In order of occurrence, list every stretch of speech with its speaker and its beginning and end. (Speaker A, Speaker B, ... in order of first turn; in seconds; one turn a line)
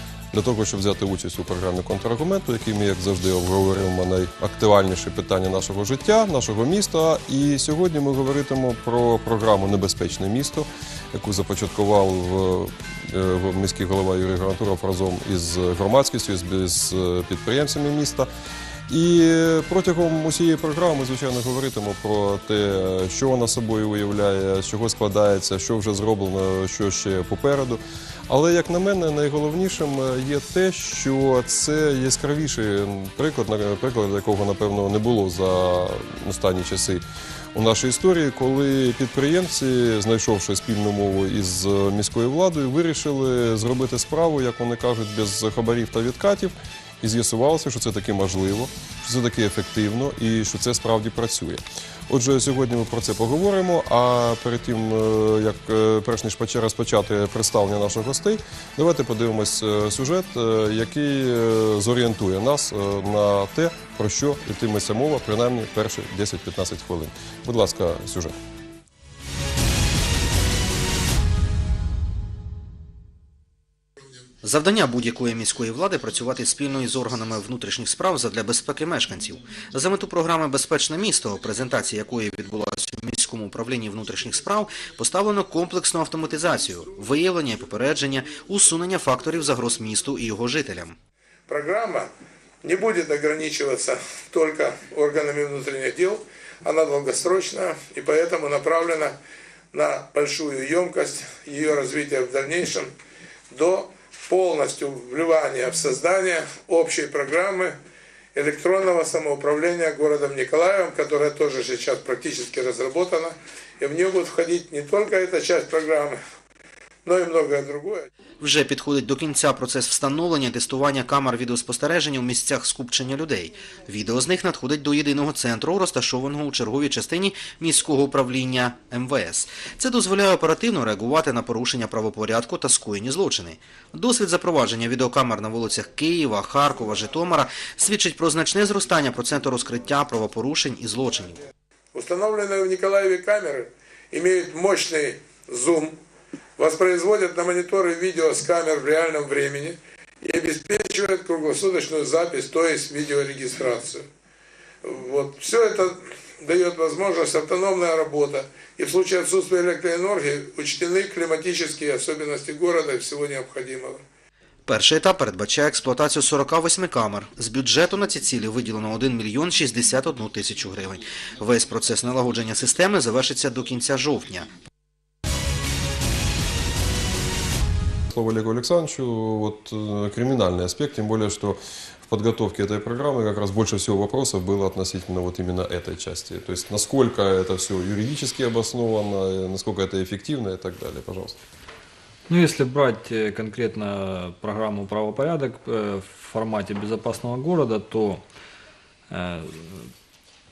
Speaker A: 0.3-18.3
Speaker A: 18.9-37.0
Speaker A: 37.5-68.3
Speaker B: 74.4-91.0
Speaker C: 91.5-92.1
Speaker C: 92.6-99.2
Speaker C: 99.7-102.9
Speaker C: 103.5-107.7
Speaker C: 108.3-116.2
Speaker C: 117.0-118.1
Speaker B: 118.4-141.4
Speaker C: 141.9-145.9
Speaker C: 146.6-154.0
Speaker C: 154.8-164.0
Speaker B: 164.7-174.5
Speaker A: 178.1-191.4
Speaker D: 192.3-198.2
Speaker D: 199.1-199.9